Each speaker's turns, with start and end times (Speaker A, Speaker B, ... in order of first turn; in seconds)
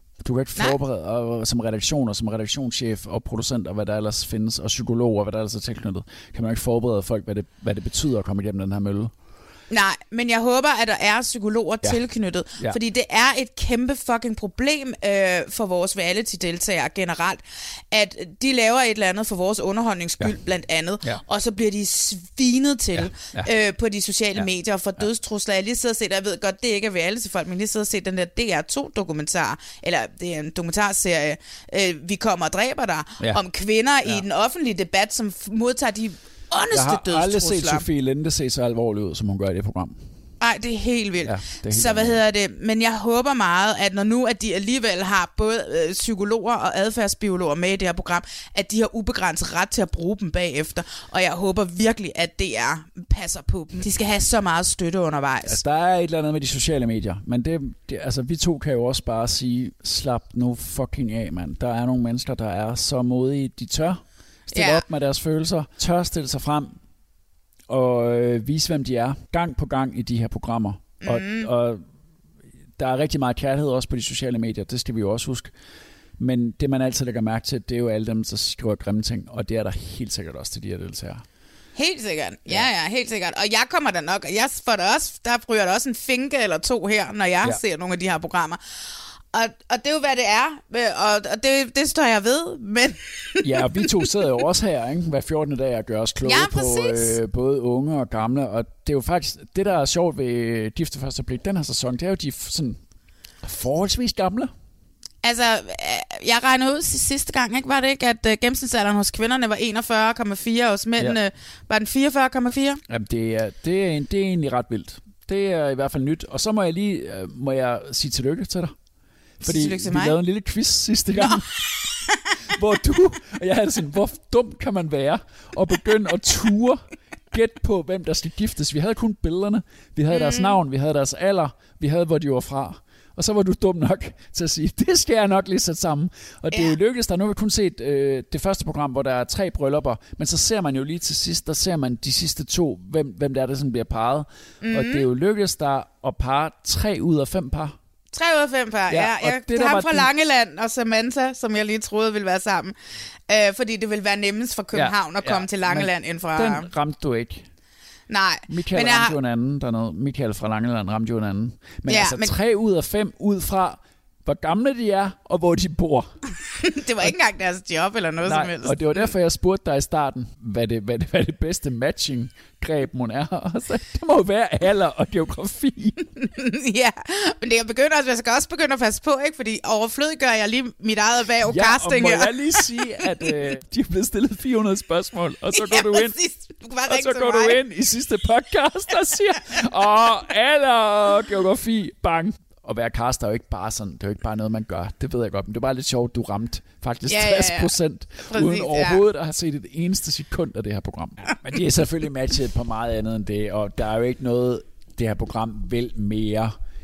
Speaker A: 0.2-9.1, 22.9-23.5, 36.7-40.0, 41.2-42.2, 55.5-66.8, 67.7-71.8, 72.8-75.5, 76.2-81.2, 93.4-102.8, 103.4-104.5, 112.9-118.8, 119.4-121.5, 122.5-147.8, 148.9-150.1, 154.7-157.5, 158.5-166.2, 168.2-176.1, 181.4-186.2, 186.9-206.6
Speaker B: 9.7-37.9, 40.4-55.6, 64.5-64.8, 71.0-71.5, 81.8-88.6, 89.3-94.1, 96.2-97.2, 105.2-112.8, 119.4-120.2, 121.2-122.3, 130.1-130.6, 144.6-145.1, 148.1-152.8, 153.3-156.7, 158.1-159.2, 161.9-162.3, 166.6-169.1, 176.2-182.8, 185.5-187.6, 197.1-199.0